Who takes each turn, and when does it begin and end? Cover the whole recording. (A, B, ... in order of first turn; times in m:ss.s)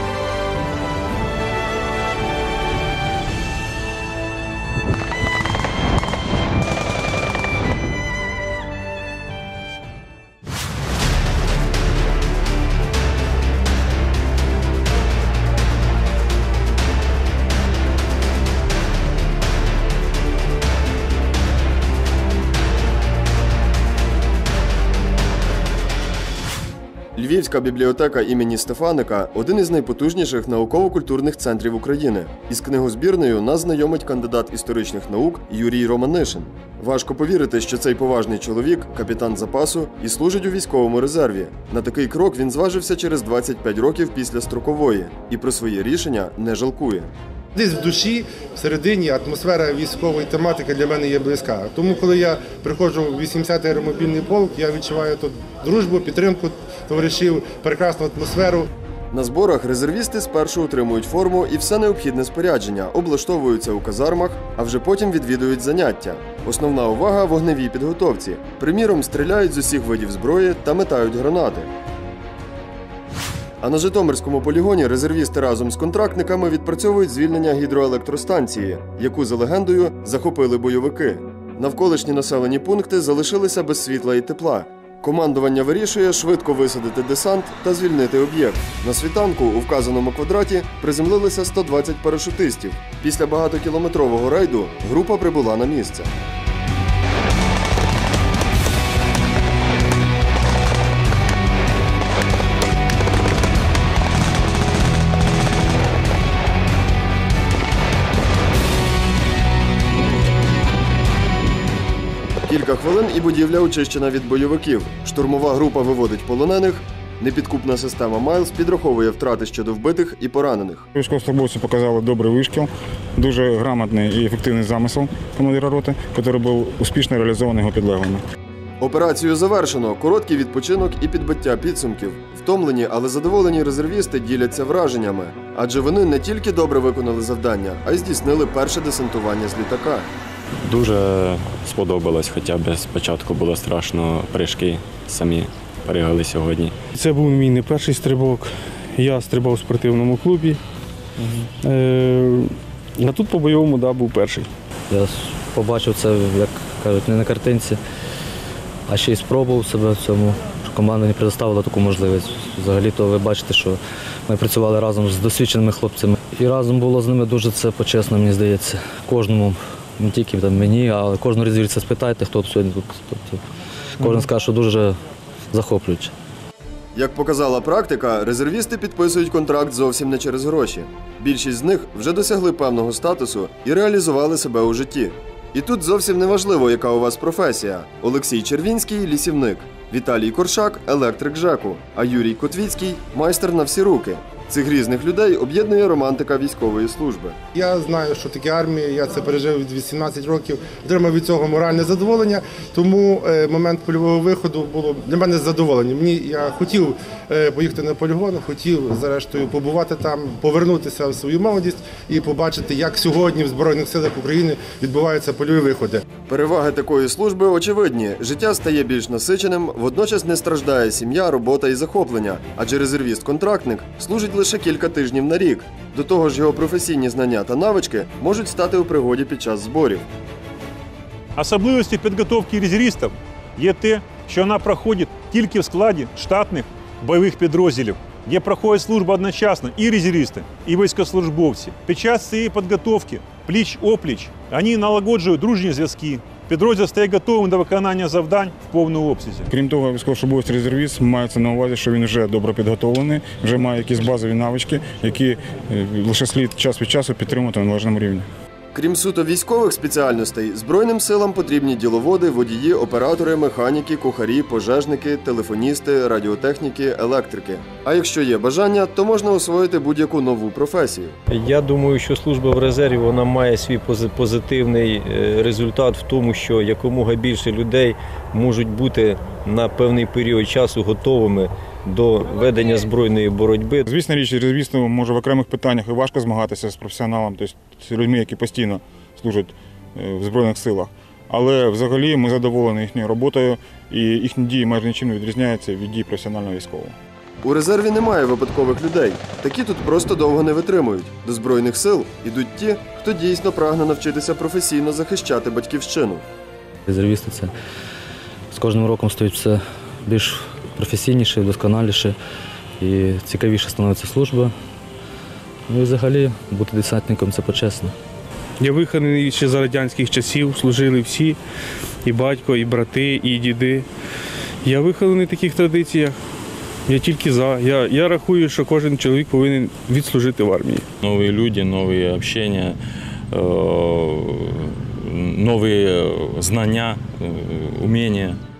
0:27.1-0:47.1 A
0:47.5-0:58.7 B
0:59.1-1:11.7 A
1:13.6-1:36.1 A
1:52.4-2:00.8 A
2:00.9-2:08.2 C
2:08.8-2:20.1 A
2:20.6-2:26.7 D
2:26.9-2:30.6 E
2:31.2-2:34.5 E
2:34.9-2:37.8 F
2:38.9-2:53.4 F
2:54.0-2:55.0 F
2:55.5-2:56.1 F
2:56.9-3:17.4 A
3:17.5-3:36.0 B
3:36.3-3:50.0 A
3:51.4-4:09.5 G
4:09.5-4:18.3 C
4:18.7-4:31.2 A
4:31.3-4:43.9 H
4:43.8-4:56.9 C
4:57.4-5:06.2 A
5:06.9-5:07.5 F
5:08.5-5:12.2 F
5:12.8-5:14.5 F
5:15.7-5:17.9 F
5:18.6-5:21.4 E
5:22.0-5:23.9 E
5:24.6-5:26.2 E
5:26.9-5:30.8 E
5:31.0-5:32.8 I
5:33.3-5:38.4 I